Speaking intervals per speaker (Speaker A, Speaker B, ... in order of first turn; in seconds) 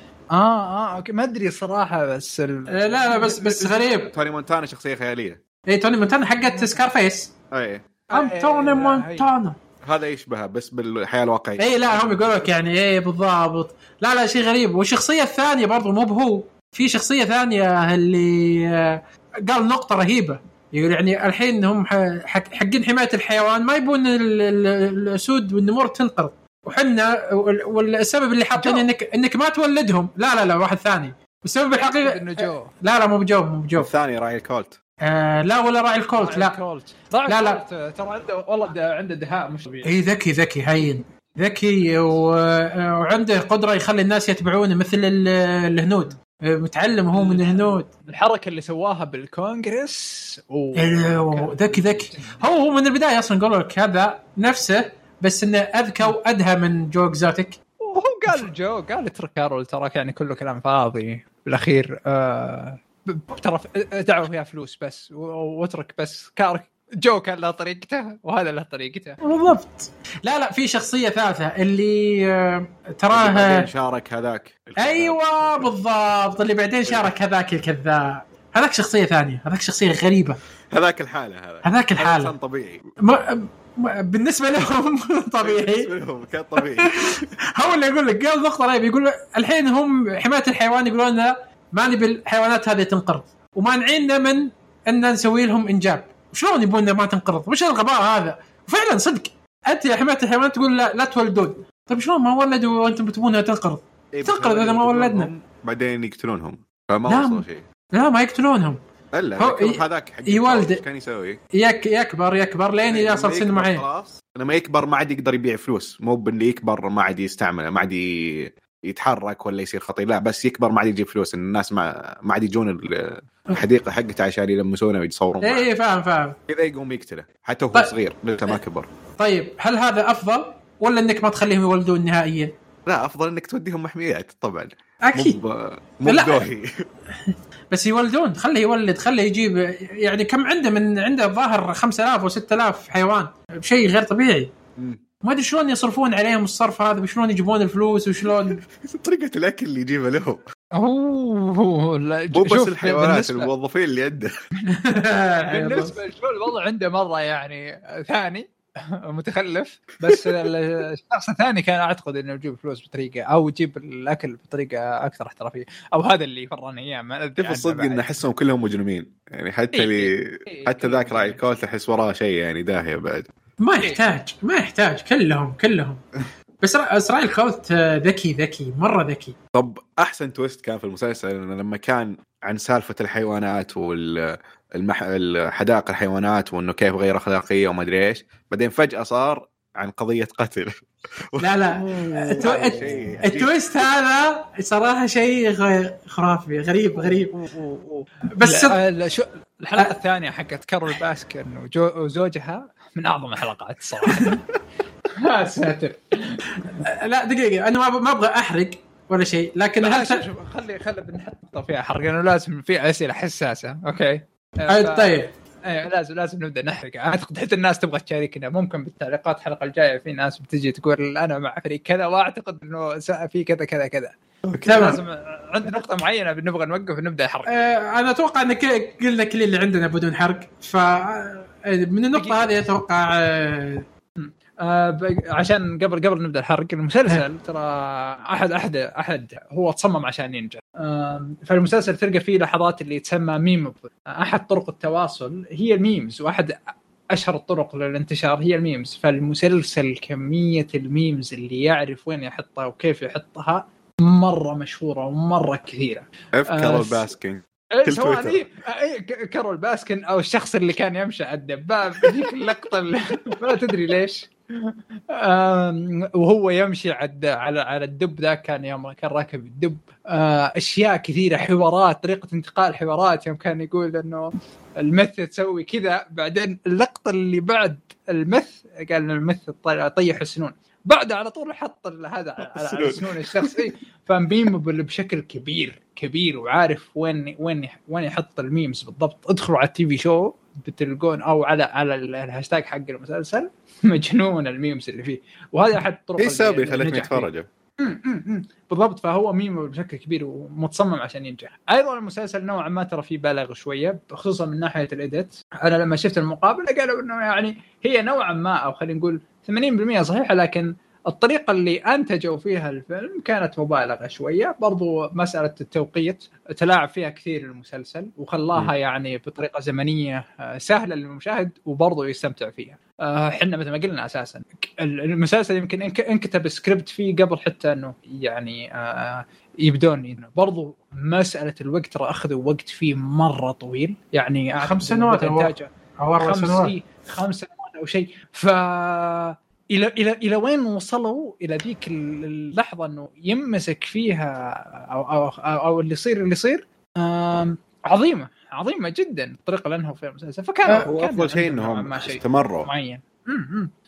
Speaker A: 0.3-3.6, 8.1-9.3, 28.6-28.9, 31.8-32.7, 36.2-40.0, 41.8-42.2, 47.1-52.4, 57.8-69.2, 150.8-153.5, 155.5-168.1, 169.7-171.4, 197.0-204.4, 205.1-206.8, 209.8-215.1, 215.7-227.5, 232.2-232.6, 234.2-246.6, 247.1-257.1, 257.8-274.3, 274.8-297.3, 297.8-335.7, 336.2-353.7
Speaker B: 2.7-4.1, 5.7-7.3, 8.1-9.6, 11.6-33.9, 35.0-36.6, 37.3-37.6, 39.9-47.9, 50.8-57.6, 69.2-73.7, 74.8-80.4, 81.6-82.3, 83.0-85.9, 86.7-105.3, 107.1-108.8, 109.4-110.8, 111.5-113.8, 125.4-126.4, 129.2-132.5, 135.1-135.4, 136.1-136.5, 137.3-144.5, 145.2-148.6, 154.7-155.9, 173.6-176.0, 176.6-179.4, 191.4-197.3, 198.3-198.8, 206.6-210.2, 214.7-215.3, 224.7-225.0, 227.5-233.8, 334.6-336.8
Speaker C: 3.6-5.4, 7.5-7.9, 9.8-12.5, 33.8-34.8, 73.1-75.7, 76.8-77.1, 80.7-82.8, 85.4-87.3, 104.1-107.6, 109.1-111.4, 112.9-125.7, 126.5-128.9, 132.9-136.9, 148.3-150.4, 152.3-154.3, 167.4-173.3, 179.6-193.5, 224.5-224.9, 256.3-258.4, 282.5-283.6, 296.2-297.5, 350.8-352.7